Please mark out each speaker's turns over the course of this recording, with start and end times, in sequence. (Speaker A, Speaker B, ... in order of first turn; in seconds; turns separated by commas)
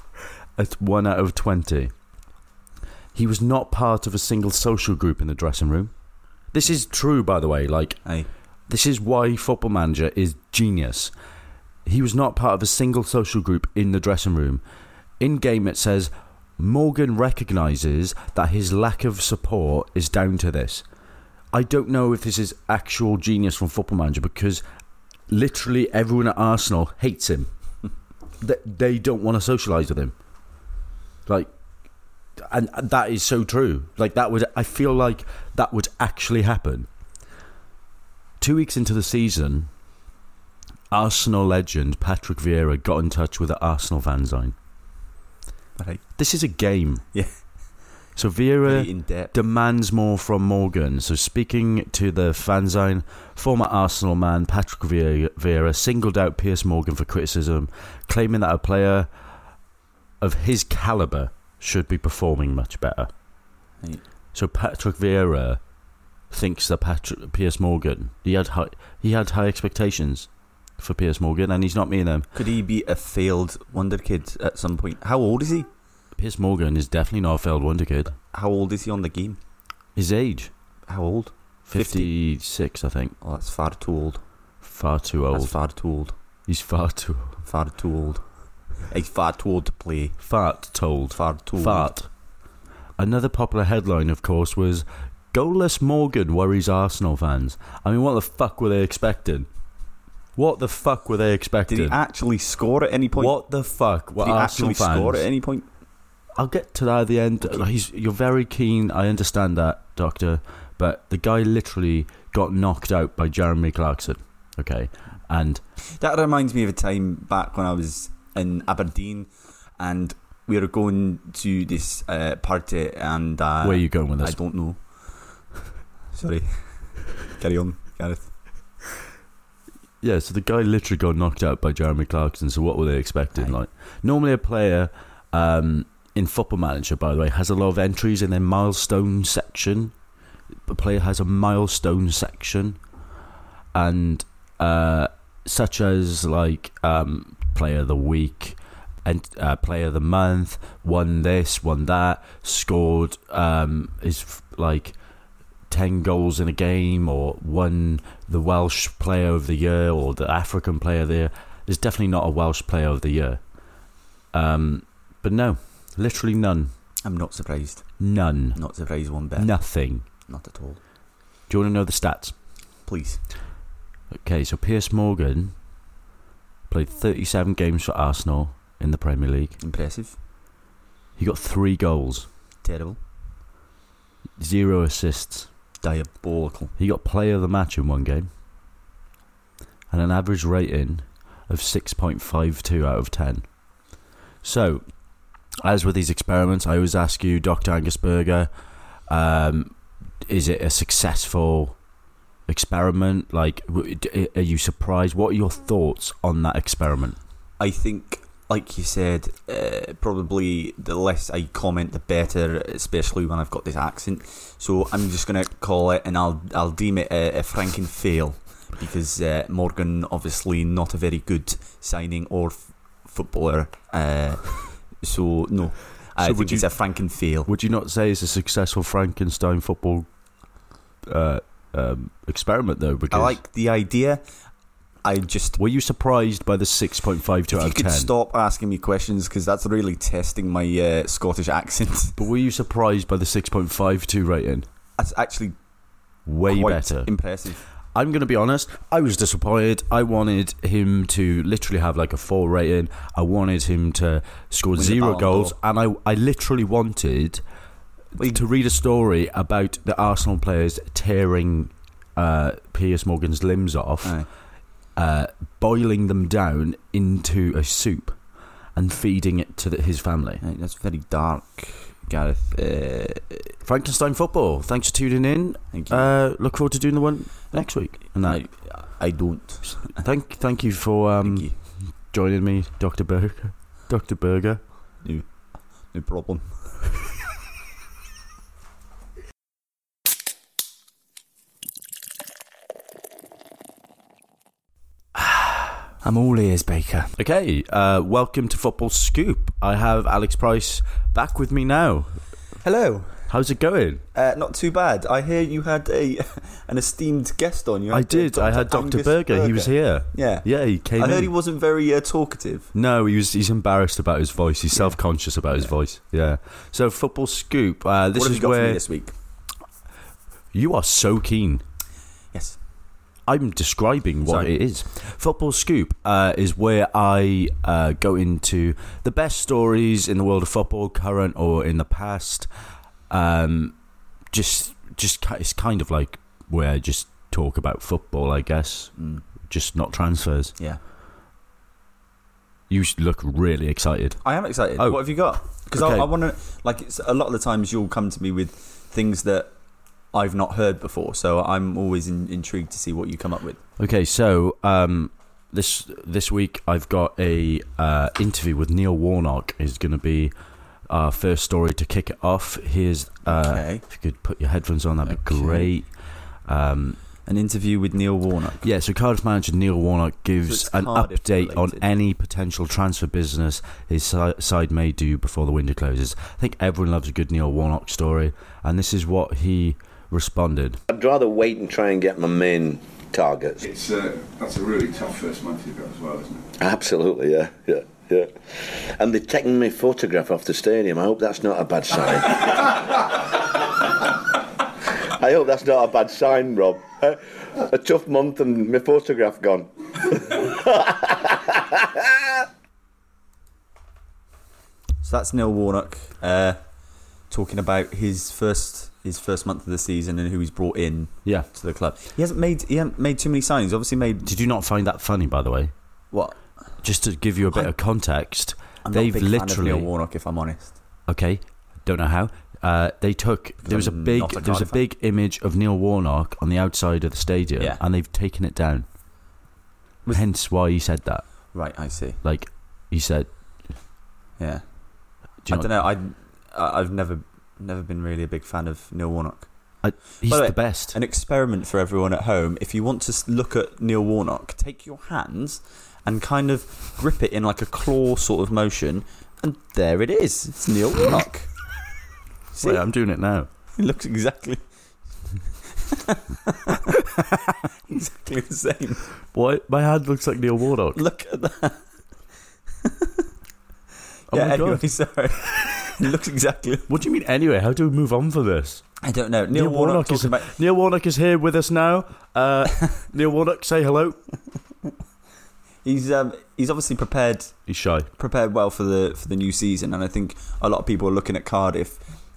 Speaker A: 0.6-1.9, Speaker A: 3.1-5.9, Speaker A: 6.5-8.0, Speaker A: 8.7-11.1, Speaker A: 11.8-14.6, Speaker A: 15.2-20.8, Speaker A: 21.5-24.6, Speaker A: 25.3-27.5, Speaker A: 28.4-30.1, Speaker A: 31.2-31.5, Speaker A: 32.4-36.9, Speaker A: 38.4-39.7, Speaker A: 40.9-44.5, Speaker B: 45.8-46.0, Speaker A: 46.1-47.0, Speaker A: 48.1-59.1, Speaker B: 48.6-49.3, Speaker A: 60.2-63.1, Speaker A: 64.3-65.6, Speaker A: 66.3-70.3, Speaker A: 70.8-72.3, Speaker B: 72.3-75.7, Speaker A: 76.2-78.2, Speaker B: 78.3-79.4, Speaker A: 80.0-80.5, Speaker B: 80.9-82.1, Speaker A: 81.7-83.2, Speaker B: 83.2-84.2, Speaker A: 84.6-85.5, Speaker B: 85.3-86.1, Speaker A: 86.5-87.4, Speaker B: 87.4-88.2, Speaker B: 88.8-90.2, Speaker A: 90.2-92.1, Speaker B: 91.1-91.9, Speaker A: 93.0-99.5, Speaker A: 100.3-102.0, Speaker B: 101.7-103.4, Speaker A: 103.2-105.3, Speaker B: 104.2-105.7, Speaker A: 106.3-115.6, Speaker B: 116.0-124.8, Speaker A: 123.6-124.4, Speaker B: 126.1-128.3, Speaker A: 130.0-139.9, Speaker A: 140.7-142.8, Speaker A: 143.7-154.9, Speaker A: 155.7-163.4, Speaker A: 164.3-166.7, Speaker B: 167.0-167.9, Speaker A: 168.0-168.6, Speaker B: 168.5-169.5, Speaker A: 169.4-170.0, Speaker B: 170.2-170.8, Speaker A: 171.5-172.3, Speaker B: 172.8-173.2, Speaker A: 174.1-175.5, Speaker A: 176.7-179.6, Speaker B: 179.6-180.1, Speaker A: 181.2-182.3, Speaker B: 182.6-183.0, Speaker A: 184.4-185.5, Speaker B: 185.8-186.7, Speaker A: 186.8-188.3, Speaker A: 189.9-193.5, Speaker A: 194.4-194.8, Speaker A: 195.6-198.5, Speaker A: 199.1-201.8, Speaker A: 202.5-207.2, Speaker B: 207.6-227.5, Speaker A: 226.2-226.7, Speaker A: 227.4-230.1, Speaker A: 231.0-233.4, Speaker B: 233.1-234.2, Speaker B: 235.0-235.6, Speaker A: 235.6-238.1, Speaker B: 237.5-242.2, Speaker A: 242.2-244.7, Speaker B: 245.0-245.6, Speaker A: 246.2-247.1, Speaker B: 246.5-247.6, Speaker A: 247.9-257.4, Speaker B: 254.7-255.6, Speaker A: 258.1-264.2, Speaker B: 258.2-258.4, Speaker B: 264.0-264.3, Speaker A: 264.9-268.2, Speaker A: 268.7-270.4, Speaker B: 270.4-273.5, Speaker A: 273.6-278.4, Speaker B: 275.7-276.1, Speaker B: 278.1-280.0, Speaker A: 279.9-284.6, Speaker B: 281.2-281.5, Speaker B: 285.0-285.3, Speaker B: 285.9-286.6, Speaker B: 295.2-297.1, Speaker A: 297.1-302.2, Speaker B: 302.6-303.3, Speaker A: 303.3-304.0, Speaker B: 304.1-312.7, Speaker A: 307.9-311.3, Speaker A: 312.7-318.8, Speaker B: 314.7-315.0, Speaker B: 318.1-319.1, Speaker A: 320.5-321.6, Speaker A: 323.3-332.5, Speaker B: 324.2-324.5, Speaker A: 333.1-333.8, Speaker A: 334.3-338.9, Speaker B: 339.0-339.2, Speaker A: 339.4-340.5, Speaker A: 342.7-344.2, Speaker B: 344.2-349.5, Speaker A: 344.8-345.0, Speaker A: 345.5-346.1, Speaker B: 350.1-353.6, Speaker A: 353.8-360.3, Speaker A: 360.9-365.9, Speaker B: 363.2-363.8, Speaker B: 365.0-365.7, Speaker A: 366.5-367.0, Speaker B: 367.2-368.7, Speaker A: 368.6-380.8, Speaker B: 370.4-371.9, Speaker C: 380.9-383.7, Speaker D: 383.7-386.4, Speaker C: 386.5-393.6, Speaker C: 395.1-402.4, Speaker B: 405.0-406.6, Speaker B: 407.3-414.3, Speaker A: 414.2-415.7, Speaker B: 416.1-416.4, Speaker A: 416.8-419.9, Speaker B: 418.8-420.8, Speaker A: 421.1-428.9, Speaker B: 423.6-424.8, Speaker A: 430.1-431.3, Speaker B: 431.5-432.2, Speaker A: 432.2-433.8, Speaker B: 434.4-434.7, Speaker B: 435.4-439.5, Speaker A: 439.8-440.9, Speaker B: 440.2-451.5, Speaker B: 452.5-452.8, Speaker A: 452.6-453.5, Speaker B: 453.7-454.6, Speaker B: 455.8-459.0, Speaker A: 459.3-461.0, Speaker B: 460.9-461.8, Speaker B: 462.8-463.1, Speaker A: 464.3-464.8, Speaker B: 464.3-466.9, Speaker A: 466.9-468.8, Speaker B: 469.0-470.5, Speaker A: 469.5-474.2, Speaker B: 475.8-477.5, Speaker A: 477.7-478.1, Speaker B: 478.2-482.0